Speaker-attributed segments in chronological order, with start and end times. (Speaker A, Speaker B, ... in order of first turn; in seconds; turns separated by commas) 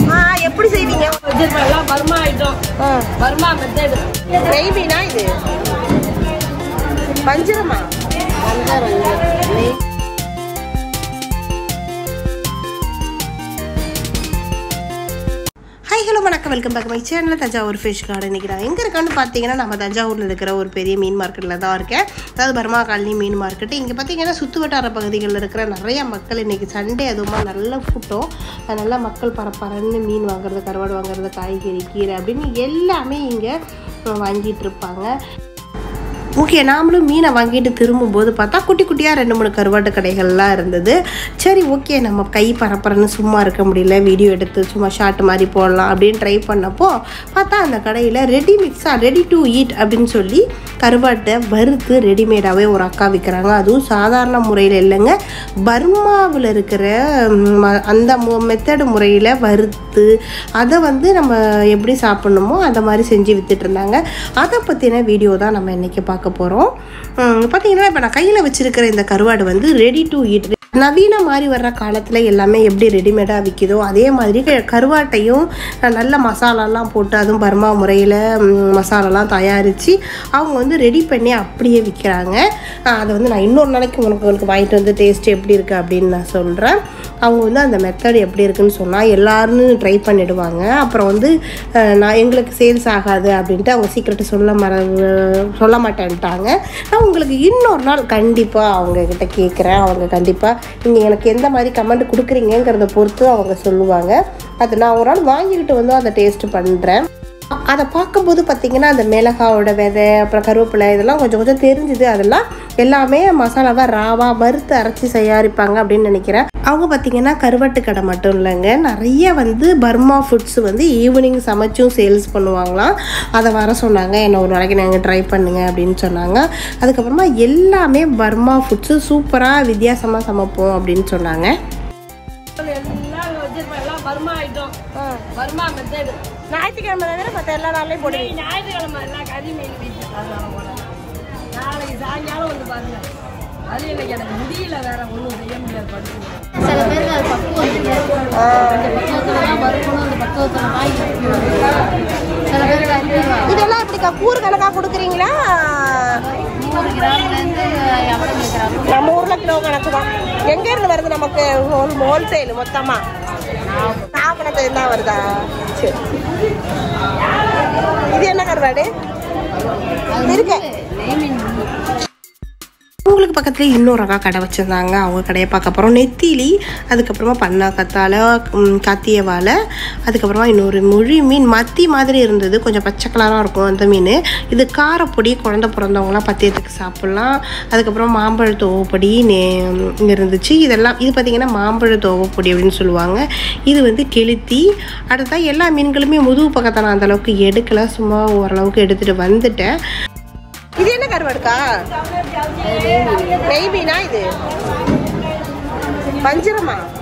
Speaker A: 0.1-1.2, Speaker B: 1.2-2.6, Speaker A: 2.8-3.1, Speaker B: 3.2-4.0, Speaker A: 4.5-5.3, Speaker A: 7.2-7.9, Speaker C: 8.4-9.7, Speaker A: 15.9-33.5, Speaker A: 34.2-35.1, Speaker A: 36.4-55.1, Speaker A: 55.7-60.1, Speaker A: 60.6-66.7, Speaker A: 67.2-82.4, Speaker A: 82.9-91.3, Speaker A: 91.8-107.0, Speaker A: 107.7-131.5, Speaker B: 132.6-134.8, Speaker A: 134.9-135.2, Speaker B: 135.3-136.2, Speaker A: 136.5-138.3, Speaker B: 138.0-143.1, Speaker B: 143.7-146.6, Speaker C: 146.7-148.1, Speaker A: 148.3-149.1, Speaker C: 149.2-151.7, Speaker C: 152.5-153.5, Speaker A: 153.4-156.2, Speaker C: 156.5-158.8, Speaker A: 158.8-163.0, Speaker A: 164.1-166.1, Speaker A: 168.1-168.9, Speaker A: 170.2-170.6, Speaker C: 170.2-171.7, Speaker A: 173.1-179.5, Speaker A: 180.1-199.7, Speaker A: 200.8-201.6, Speaker C: 202.6-203.4, Speaker A: 203.4-204.3, Speaker A: 206.2-206.8